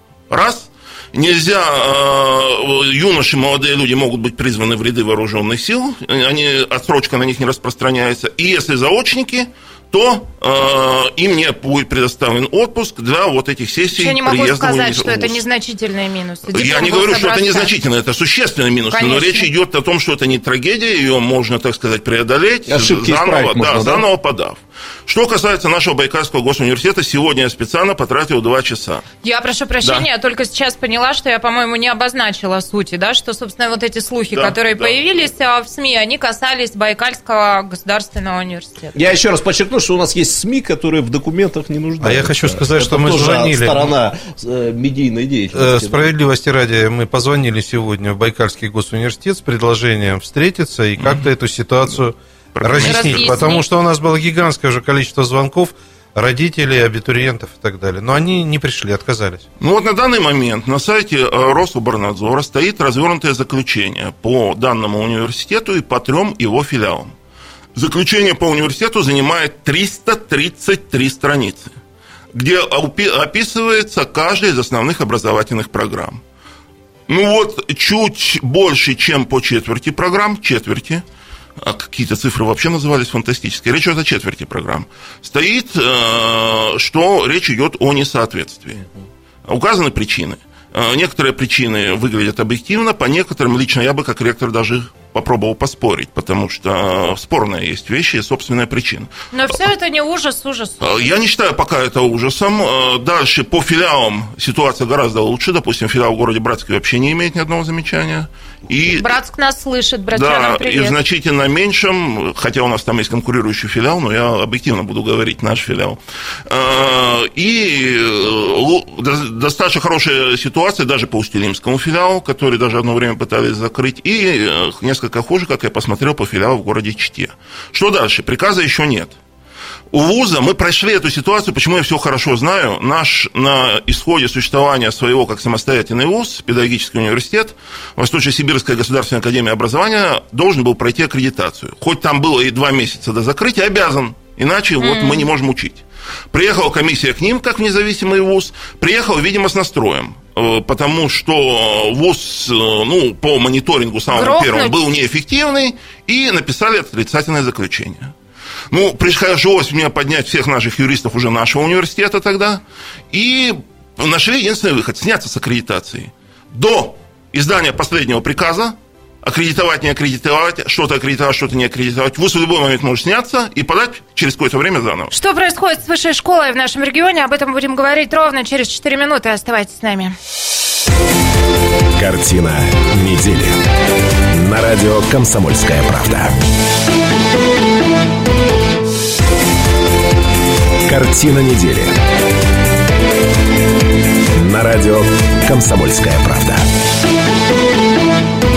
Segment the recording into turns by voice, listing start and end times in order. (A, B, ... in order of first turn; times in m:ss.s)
0:00.3-0:15.4 A
0:13.9-0:17.7 B
0:16.5-0:29.0 A
0:18.9-0:19.5 B
0:22.7-0:24.0 C
0:29.2-0:38.9 B
0:34.3-0:34.9 A
0:38.9-0:46.0 C
0:42.0-0:43.9 D
0:45.5-0:59.4 D
0:51.0-0:51.3 A
0:52.5-0:53.5 A
0:52.8-0:53.6 B
0:59.6-1:07.1 A
1:07.7-1:11.7 A
1:12.3-1:16.2 A
1:17.1-1:21.0 A
1:21.6-1:28.8 A
1:29.5-1:39.6 A
1:39.3-1:41.1 B
1:40.8-1:49.1 A
1:49.0-1:51.0 B
1:50.1-2:09.1 A
2:09.9-2:38.1 A
2:24.8-2:25.3 B
2:34.1-2:34.7 B
2:38.7-2:55.1 A
2:55.1-3:00.2 B
3:01.9-3:03.6 E
3:04.3-3:06.4 E
3:10.8-3:12.0 E
3:14.3-3:16.7 E